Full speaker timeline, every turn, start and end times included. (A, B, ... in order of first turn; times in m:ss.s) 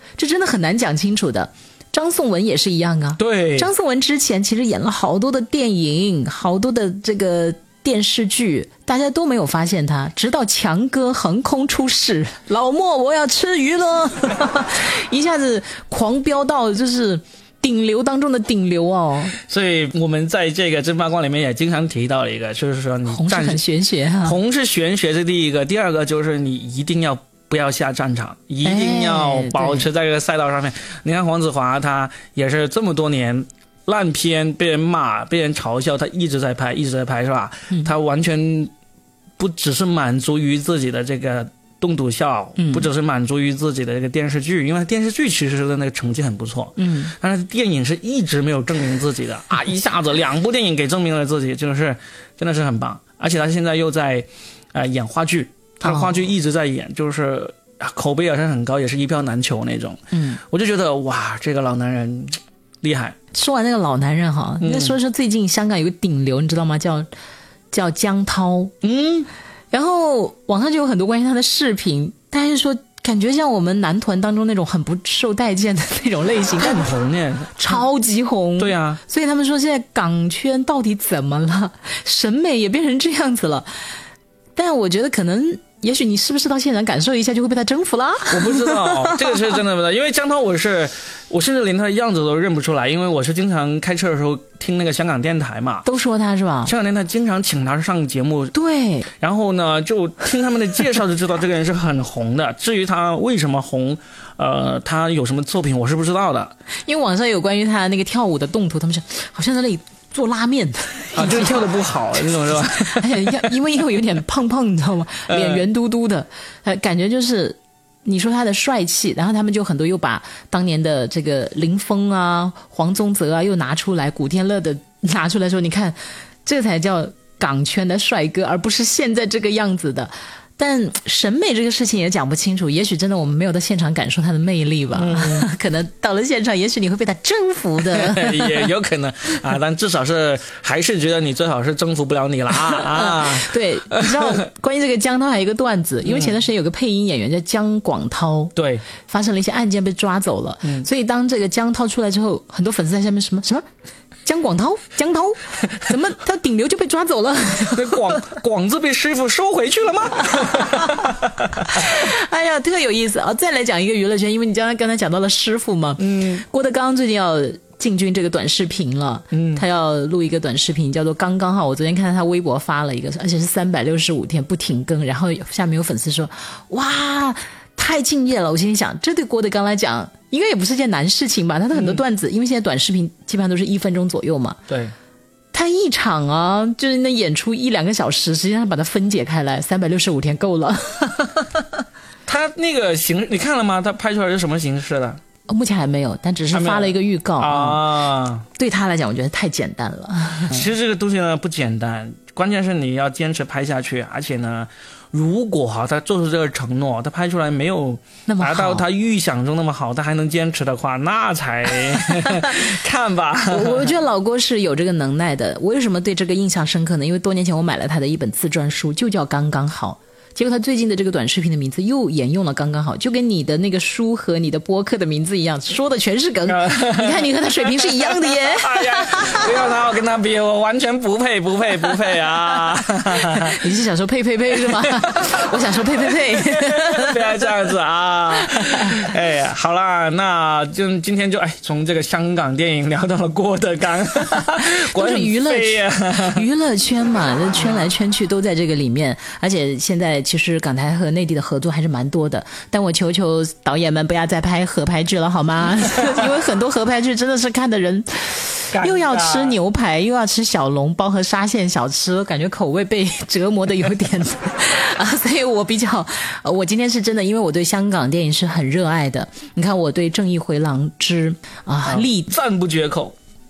0:00.2-0:19.4 A
0:03.2-0:03.7 B
0:19.4-0:23.6 B
0:23.1-0:24.4 A
0:24.2-0:38.7 B
0:28.6-0:29.8 A
0:39.4-1:03.2 B
0:42.6-0:42.9 A
0:46.8-0:47.1 A
0:55.9-0:56.2 A
1:00.1-1:00.4 A
1:03.3-1:07.1 A
1:04.6-1:05.0 B
1:07.7-1:08.7 A
1:08.8-1:09.3 B
1:09.7-1:16.9 A
1:16.6-1:17.8 B
1:17.6-1:23.9 A
1:18.6-1:19.0 B
1:24.6-1:29.4 A
1:28.3-1:35.8 B
1:35.8-1:36.7 A
1:36.6-1:38.5 B
1:38.5-1:39.1 A
1:39.1-1:46.5 B
1:46.9-1:51.7 A
1:51.1-1:53.5 B
1:52.4-2:18.7 A
1:55.3-1:55.6 B
2:14.9-2:15.5 B
2:17.9-2:24.4 B
2:22.6-2:33.6 A
2:26.1-2:26.4 B
2:28.6-2:28.9 B
2:34.2-2:38.3 A
2:37.7-2:41.9 B
2:40.4-2:41.1 A
2:41.6-3:04.6 A
2:46.0-2:46.4 B
2:49.3-2:49.6 B
3:01.8-3:02.0 B
3:04.7-3:04.9 B
3:05.5-3:11.6 A
3:12.3-3:15.2 B
3:15.5-3:17.8 A
3:16.5-3:18.5 B
3:18.6-3:20.7 A
3:20.5-3:33.9 B
3:28.3-3:28.9 A
3:33.5-3:49.5 A
3:46.5-3:53.6 B
3:53.4-3:57.4 A
3:54.7-3:55.4 B
3:56.1-4:06.4 B
3:58.5-3:58.9 A
4:04.6-4:32.3 A
4:18.7-4:19.6 B
4:31.8-4:33.2 B